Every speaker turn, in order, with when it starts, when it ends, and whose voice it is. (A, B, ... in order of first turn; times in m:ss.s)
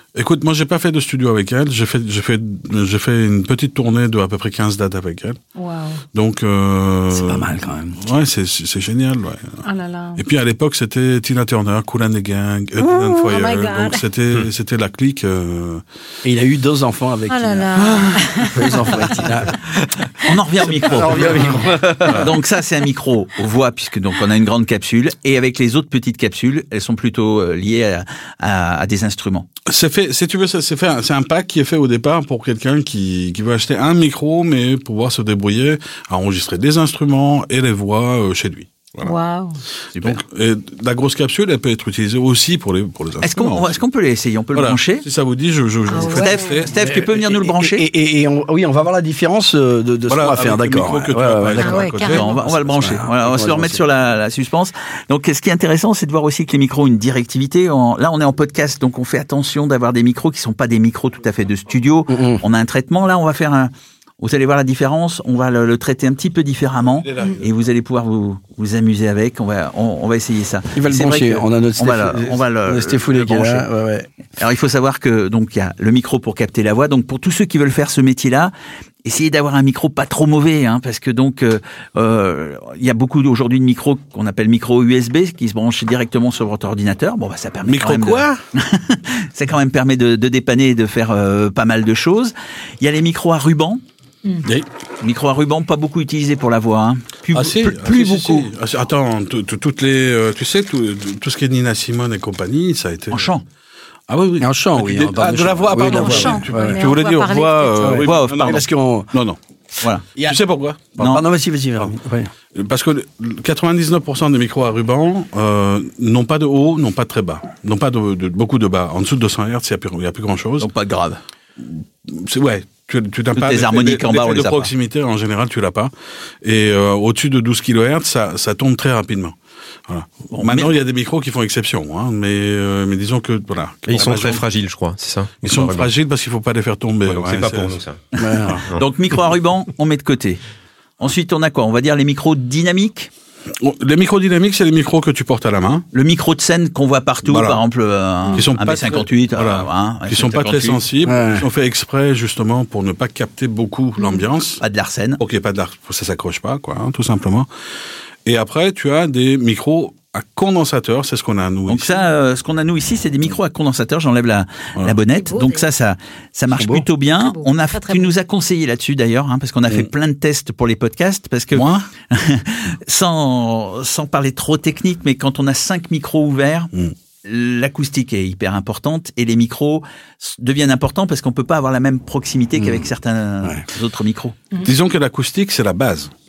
0:00.1-0:05.4 A
0:05.6-0:06.0 B
0:06.1-0:09.6 A
0:07.1-0:08.0 C
0:09.6-0:10.2 B
0:10.2-0:15.8 A
0:12.8-0:14.0 B
0:16.2-0:17.7 C
0:17.3-0:19.2 B
0:18.5-0:19.6 C
0:20.2-0:29.5 D
0:20.8-0:22.3 C
0:29.7-0:39.1 A
0:39.0-0:39.6 B
0:40.0-0:43.8 A
0:43.2-0:45.0 D
0:44.5-0:46.8 A
0:45.9-0:46.6 B
0:46.0-0:47.8 D
0:46.7-0:53.8 C
0:50.1-0:52.4 A
0:51.6-0:52.3 B
0:52.0-1:13.7 D
1:02.1-1:02.4 C
1:06.8-1:07.4 A
1:10.7-1:14.1 C
1:14.4-1:18.5 D
1:19.0-1:33.8 D
1:27.6-1:28.4 A
1:35.0-1:38.5 D
1:37.3-1:43.3 A
1:43.1-1:43.4 D
1:44.1-1:49.4 A
1:44.4-1:46.8 C
1:45.8-1:48.1 B
1:47.8-1:49.1 C
1:48.0-1:48.6 D
1:50.2-1:51.2 A
1:51.0-1:51.2 D
1:51.0-1:52.3 C
1:52.5-2:00.7 A
2:00.6-2:01.2 D
2:01.6-2:05.9 A
2:03.3-2:04.7 D
2:06.4-2:09.4 A
2:09.9-2:14.4 A
2:10.3-2:10.8 D
2:13.9-2:15.9 E
2:15.4-2:17.8 A
2:17.0-2:18.0 E
2:18.2-2:18.6 C
2:18.2-2:20.4 D
2:21.0-2:23.1 D
2:23.6-2:25.8 A
2:25.9-2:30.8 D
2:27.2-2:27.6 A
2:28.3-2:34.6 A
2:31.0-2:31.5 C
2:34.0-2:34.2 B
2:34.6-2:35.2 D
2:35.2-2:37.5 A
2:38.2-2:42.1 A
2:41.7-2:56.7 D
2:45.1-2:45.6 B
2:46.5-2:46.8 C
2:47.2-2:48.1 B
2:51.5-2:51.8 A
2:57.2-3:04.4 D
3:02.6-3:02.8 C
3:04.6-3:06.1 A